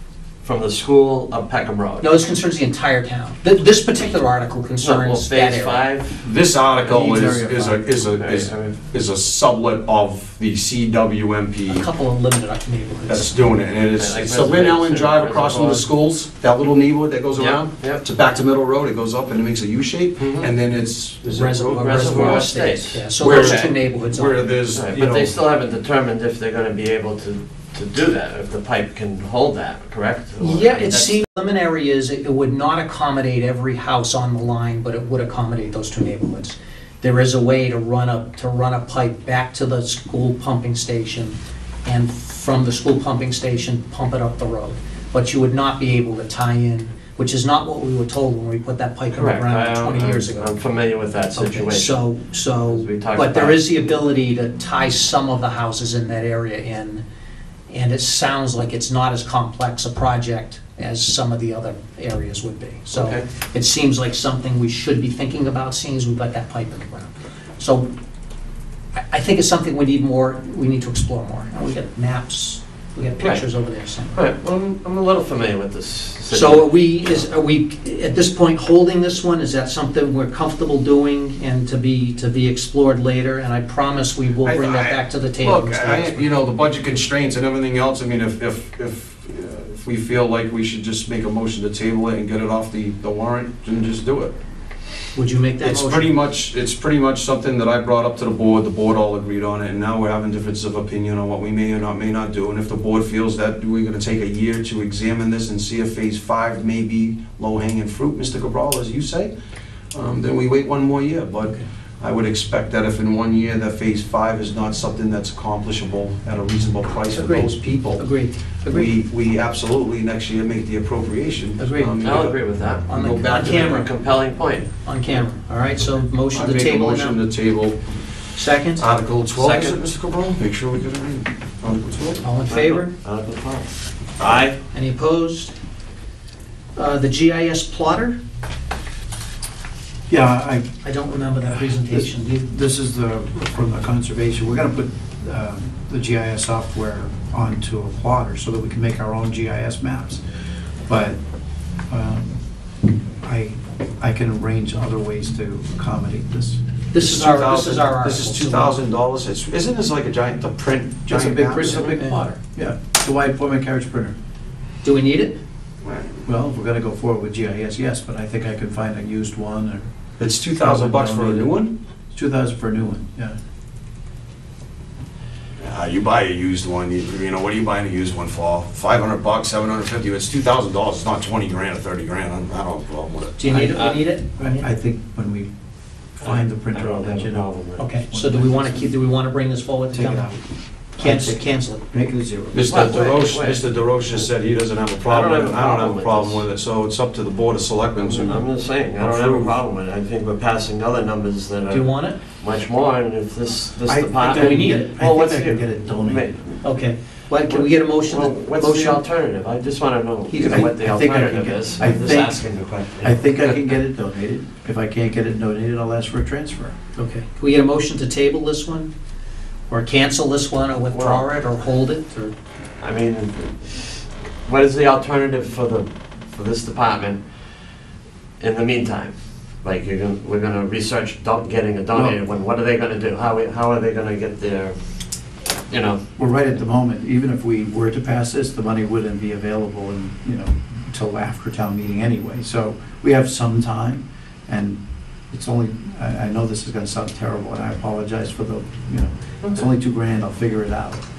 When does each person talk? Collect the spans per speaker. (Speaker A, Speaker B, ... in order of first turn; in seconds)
Speaker A: 0.4-2.1, 4.8-6.2, 8.0-8.8, 14.0-15.9, 17.4-18.1, 20.2-20.5, 21.8-23.7, 24.7-31.2, 49.1-52.0, 52.6-53.7, 62.9-63.3, 73.2-73.5, 74.1-77.2, 122.0-124.7, 129.3-129.8, 132.5-134.6, 183.5-184.0, 186.2-187.8, 192.7-193.7, 195.1-196.4, 198.0-206.6, 207.4-213.7, 220.9-221.3, 222.8-227.2, 228.4-234.8, 235.7-236.0
Speaker B: 2.0-5.8, 11.7-13.3, 21.3-24.6, 30.4-50.6, 51.4-57.0, 57.7-67.9, 69.1-74.2, 76.3-86.2, 95.2-96.1, 117.1-118.9, 121.6-122.0, 122.9-123.9, 124.8-127.2, 128.3-128.9, 132.2-132.9, 134.7-135.5, 136.8-138.2, 140.8-142.4, 156.9-158.8, 161.8-162.4, 164.8-165.4, 183.4-184.7, 187.8-190.4, 191.0-191.8, 201.7-202.2, 204.3-204.9, 206.6-209.0, 210.3-210.7, 217.0-218.9, 219.7-222.3
Speaker C: 6.2-11.8, 13.1-22.5, 23.2-25.3, 84.4-94.3, 95.6-109.3, 109.9-118.0, 118.7-122.4, 122.9-123.7, 126.3-127.8, 128.8-132.2, 157.0-161.8, 165.8-166.2, 170.2-171.7, 175.6-183.6, 192.5-198.5, 199.0-199.6
Speaker D: 6.8-7.8, 140.1-140.8, 141.4-150.2, 150.9-151.2, 151.9-152.4, 153.2-156.6, 161.1-164.2, 166.3-169.9, 170.6-171.5, 172.1-173.4, 184.4-185.5, 186.2-188.8, 189.9-190.4, 191.0-192.7, 203.9-206.3, 210.4-216.8, 236.2-244.8, 245.3-251.1